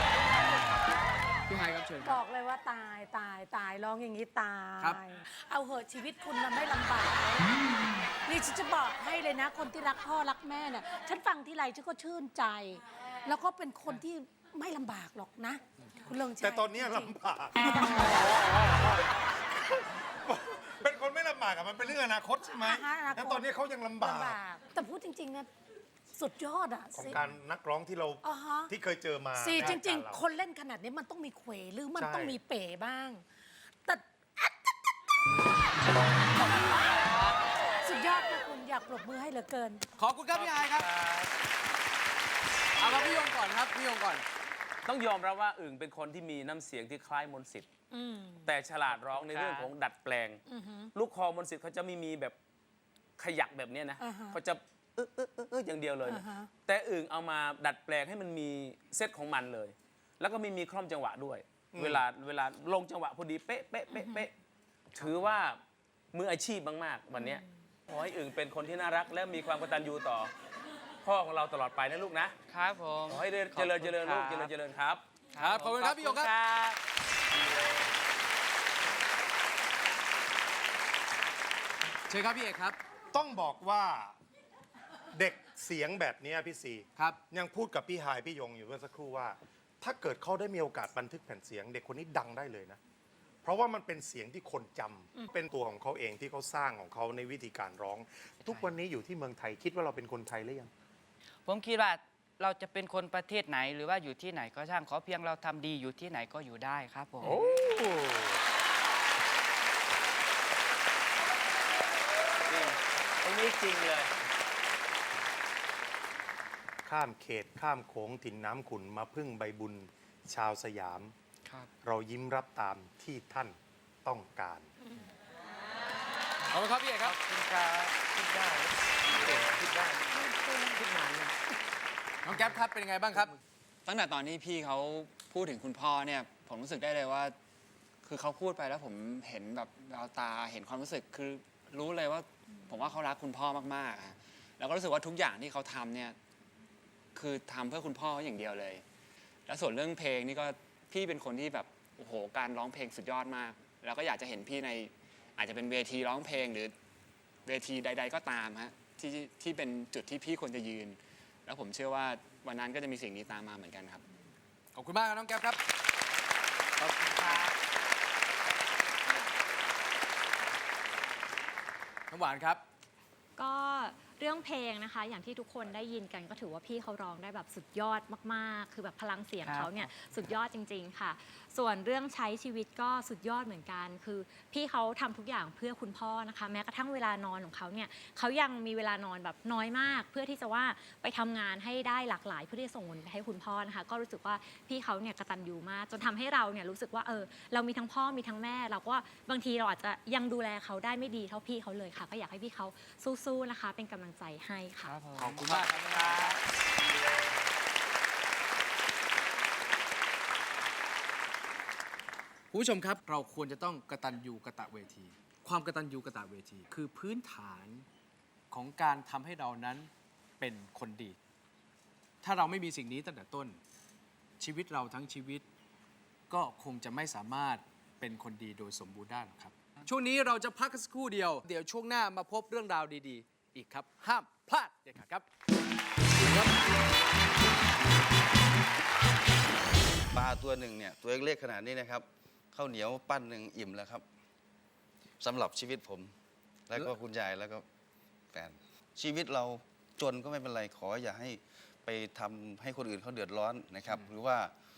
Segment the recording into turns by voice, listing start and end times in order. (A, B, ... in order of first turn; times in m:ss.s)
0:01.6-0:02.2 A
0:02.0-0:18.4 B
0:16.4-0:24.4 C
0:22.6-0:25.5 B
0:26.2-0:27.3 B
0:26.9-0:30.3 C
0:28.2-0:28.7 B
0:29.4-0:33.2 B
0:32.0-0:32.4 C
0:33.8-0:34.9 B
0:36.0-0:37.1 B
0:37.8-0:39.8 B
0:40.0-0:40.9 A
0:40.3-0:41.3 D
0:42.8-0:44.2 A
0:44.8-0:47.7 E
0:47.9-0:48.5 B
0:48.5-0:50.4 E
0:48.9-0:49.7 D
0:50.5-0:50.9 B
0:51.0-0:52.4 E
0:53.2-1:04.3 E
0:54.0-0:54.4 B
0:56.1-0:56.5 B
1:01.7-1:02.0 C
1:04.0-1:04.2 B
1:04.9-1:05.6 E
1:06.1-1:10.3 E
1:11.0-1:12.3 E
1:12.5-1:14.6 D
1:13.1-1:15.0 E
1:15.3-1:16.8 D
1:15.4-1:16.4 A
1:22.1-1:22.8 A
1:23.1-1:24.2 C
1:25.1-1:32.8 C
1:27.0-1:27.2 A
1:33.4-1:40.7 C
1:38.4-1:38.8 D
1:41.5-1:47.4 D
1:47.2-1:48.1 E
1:52.5-1:54.1 E
1:56.8-2:01.1 C
2:01.8-2:04.7 C
2:06.5-2:07.1 A
2:07.1-2:07.6 D
2:07.6-2:08.4 E
2:09.2-2:11.3 E
2:10.1-2:10.8 B
2:12.2-2:13.3 A
2:13.8-2:17.4 F
2:18.0-2:26.2 F
2:27.2-2:28.8 F
2:29.5-2:36.8 F
2:37.4-2:44.0 F
2:44.7-2:45.6 A
2:46.8-2:47.4 A
2:52.1-2:52.6 A
2:53.4-3:25.0 G
2:59.4-2:59.9 D
3:24.8-3:26.3 D
3:25.2-3:26.3 A
3:25.4-3:25.7 E
3:32.5-3:37.9 A
3:38.5-3:41.2 A
3:42.2-3:43.6 A
3:44.4-3:45.5 A
3:46.3-3:55.2 A
3:56.2-3:56.6 A
4:00.1-4:04.1 H
4:05.2-4:06.2 H
4:06.7-4:07.7 H
4:08.3-4:14.6 H